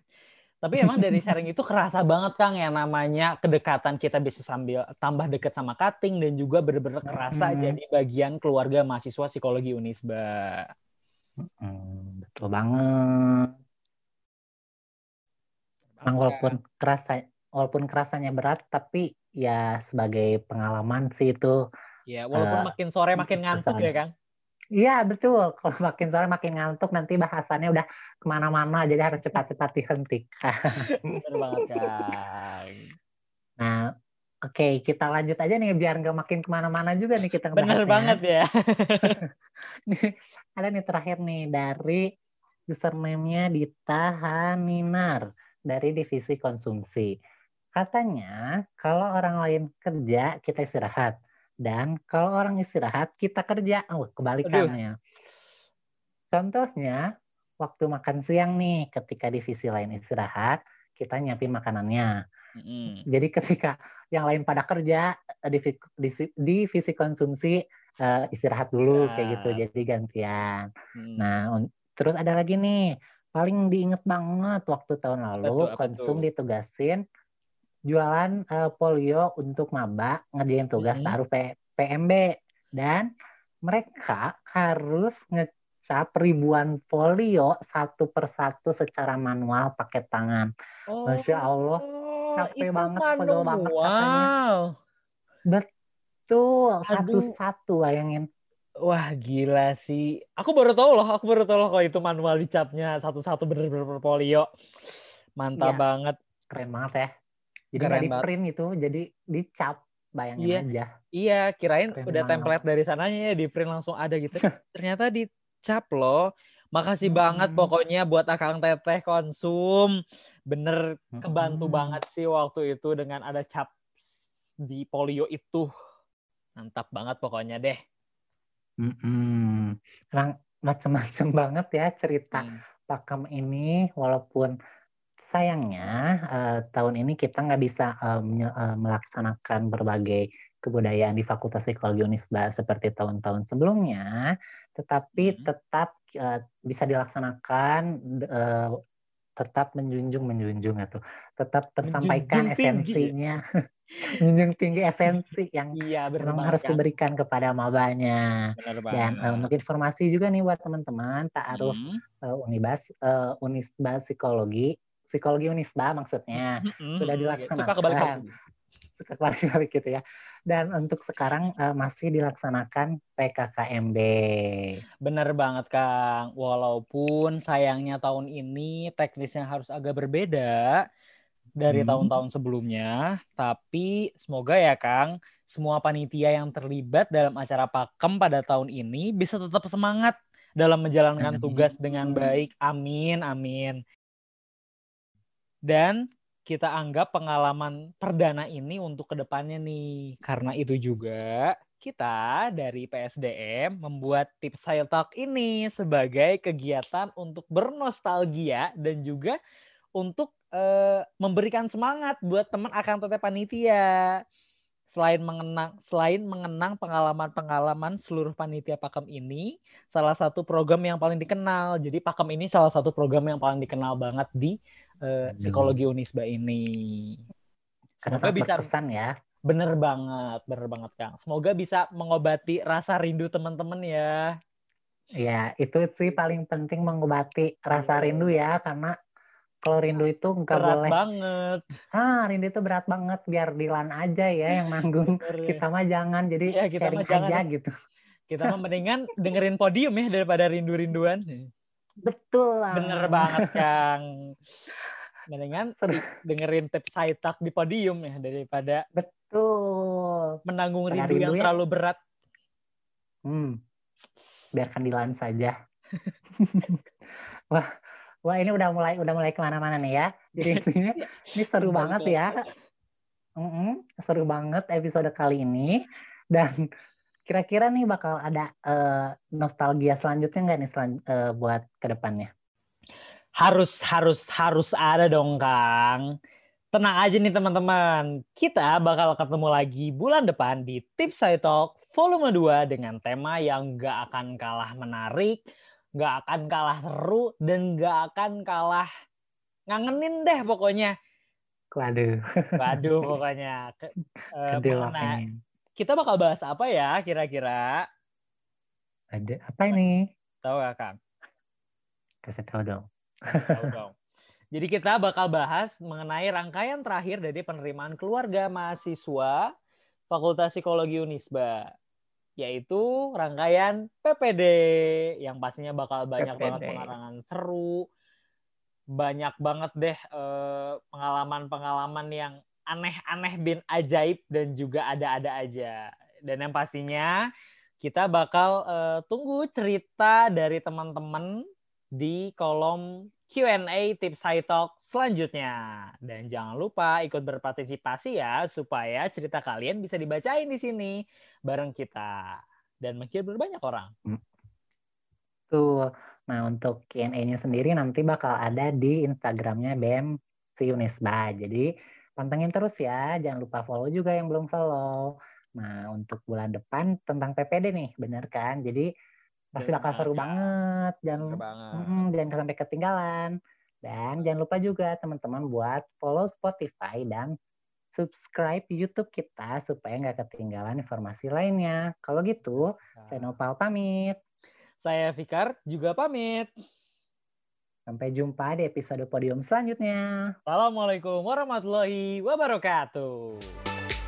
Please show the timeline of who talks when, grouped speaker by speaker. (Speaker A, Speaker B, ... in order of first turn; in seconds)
Speaker A: 0.6-10.7, 15.9-16.6, 22.1-24.1, 31.2-32.8, 37.6-39.2, 54.5-54.7, 62.6-63.0, 68.9-69.6, 71.0-71.3, 75.4-76.3, 80.8-81.2, 90.9-94.6, 96.9-97.3, 98.9-104.5, 105.4-106.2, 107.8-108.3, 110.4-110.7, 111.2-116.2, 116.8-119.9, 120.5-123.7, 124.7-125.7, 126.6-127.8, 132.3-132.6, 145.2-145.5, 151.9-153.1, 155.8-156.8, 158.6-159.5, 161.5-162.0, 166.4-168.3, 175.1-180.7, 181.6-193.8, 195.7-196.0, 196.5-209.4, 210.0-213.9, 214.9-224.6, 225.1-227.2, 228.1-228.7, 229.5-234.1, 237.7-238.4, 240.5-241.7, 245.2-245.6, 246.5-247.4, 248.3-251.4, 252.7-254.0, 255.3-258.8, 260.5-262.0, 270.4-272.5, 283.4-286.0, 286.7-295.4, 296.0-298.9, 299.7-300.9, 302.6-305.2, 305.8-307.7, 310.4-311.0, 313.5-313.9, 314.6-319.4, 320.1-321.6, 322.4-324.6, 325.2-327.8, 329.0-335.8, 336.3-337.1, 337.8-341.3, 342.0-345.5, 346.1-351.0, 351.5-352.1, 352.8-353.9, 369.6-370.6, 371.2-372.0, 383.0-383.4, 384.8-386.5, 390.5-393.6
Speaker B: 0.8-1.3, 7.1-7.8, 11.4-13.5, 16.1-21.5, 22.4-23.9, 24.8-30.9, 31.6-31.9, 34.5-38.2, 39.9-42.0, 42.7-47.1, 47.8-51.1, 51.7-54.9, 56.3-57.0, 57.6-62.1, 63.1-70.6, 71.2-72.8, 73.4-77.0, 77.9-82.2, 82.8-83.1, 83.7-90.5, 91.1-91.8, 92.4-94.3, 96.3-98.3, 106.5-107.1, 107.7-110.9, 112.0-112.5, 117.0-117.7, 121.2-122.0, 128.8-134.5, 135.3-144.1, 144.8-148.7, 149.4-153.4, 154.2-158.2, 158.9-161.8, 162.3-168.2, 169.0-174.7, 181.7-182.1, 191.2-192.3, 225.3-225.8, 228.0-229.1, 235.2-238.9, 239.7-241.0, 241.9-247.7, 252.0-253.6, 259.0-260.4, 260.9-261.5, 263.3-263.5, 264.6-265.5, 266.4-266.8, 268.3-272.4, 273.4-275.7, 277.3-282.3, 301.8-303.1, 304.5-305.3, 309.1-310.0, 312.3-312.8, 326.2-326.9, 355.5-360.1, 360.6-361.7, 362.2-368.9, 369.6-373.3, 373.8-377.3, 377.9-384.2, 387.9-390.0